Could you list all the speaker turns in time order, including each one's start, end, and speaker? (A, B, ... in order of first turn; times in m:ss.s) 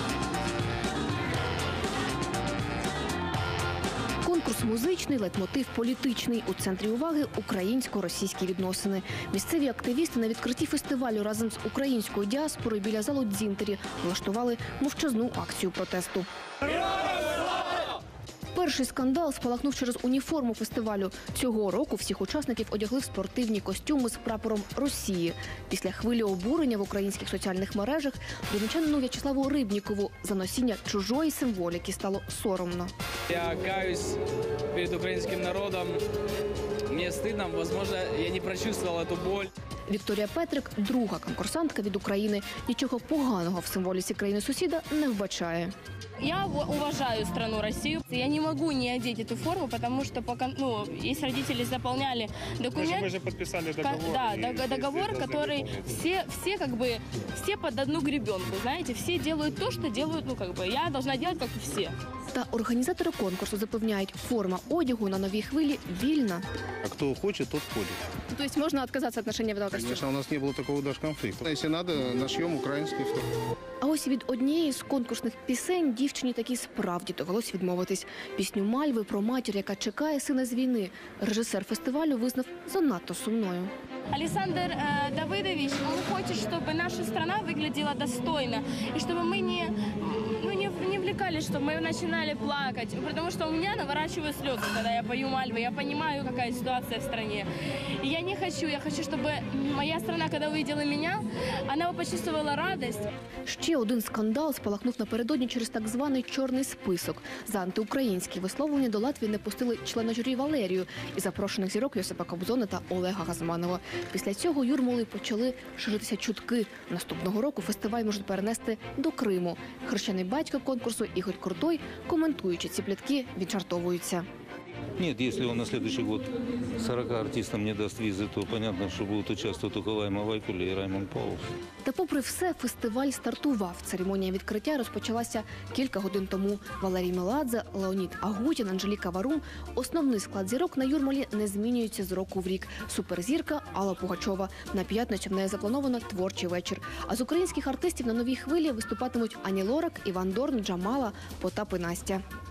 0:04.2-0:16.3 A
0:18.5-0:32.9 A
0:33.3-0:34.2 B
0:34.7-0:36.0 B
0:36.9-0:39.5 B
0:39.9-0:45.7 A
0:46.2-0:53.2 C
0:52.8-0:55.7 D
0:53.8-1:01.9 C
1:02.3-1:06.4 A
1:06.8-1:08.0 E
1:08.3-1:10.0 A
1:09.8-1:13.2 E
1:13.8-1:23.7 A
1:24.1-1:37.5 C
1:38.0-1:43.1 C
1:43.4-2:04.2 A
2:05.0-2:11.5 F
2:11.8-2:32.2 A